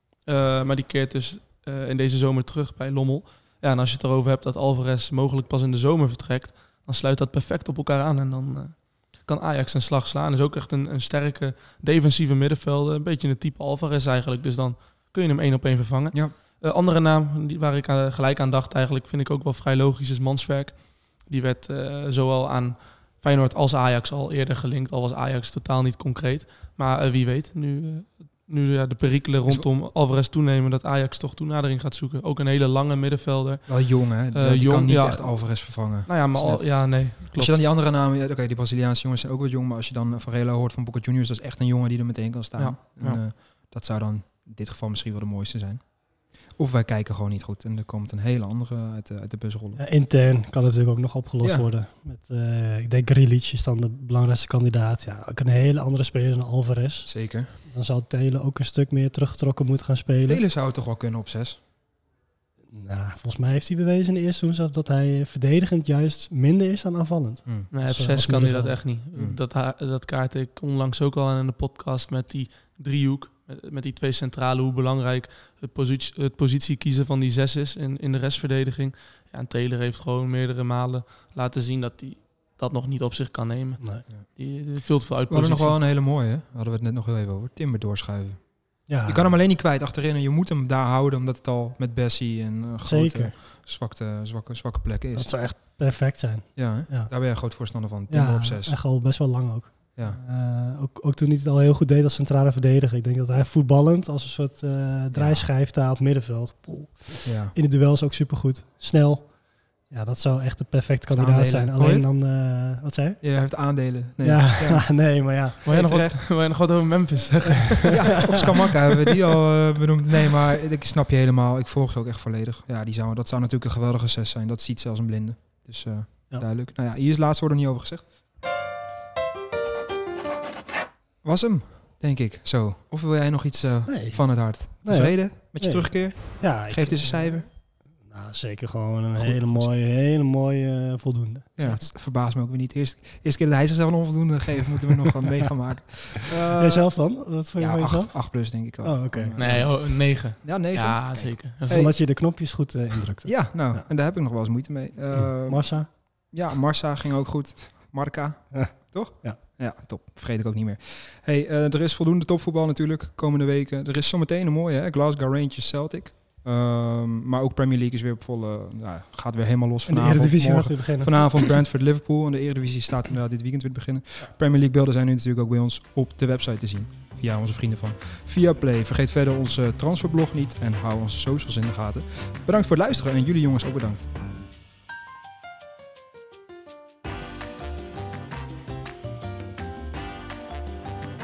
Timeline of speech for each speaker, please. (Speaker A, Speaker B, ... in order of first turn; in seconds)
Speaker A: 0.3-37.6, 42.6-43.2, 67.7-85.8, 115.7-118.3, 149.4-151.9
Speaker B: 33.7-45.8, 46.6-49.8, 57.1-57.5, 60.3-61.6, 85.3-88.4, 89.1-95.3, 96.6-98.8, 105.1-105.5, 107.2-107.5, 111.1-112.1, 113.2-114.9, 115.6-116.2, 117.9-128.0, 131.2-137.5, 139.2-139.7, 141.6-146.9, 147.6-151.9, 153.2-184.1
Speaker C: 49.8-57.1, 57.6-60.4, 62.7-68.8, 88.9-89.3, 92.8-93.3, 95.1-97.1, 98.1-109.3, 109.9-113.2, 114.2-115.6, 117.7-118.4, 133.9-137.4, 138.1-141.9, 146.6-149.4, 151.7-153.9, 155.1-155.9, 158.5-159.4, 169.9-171.2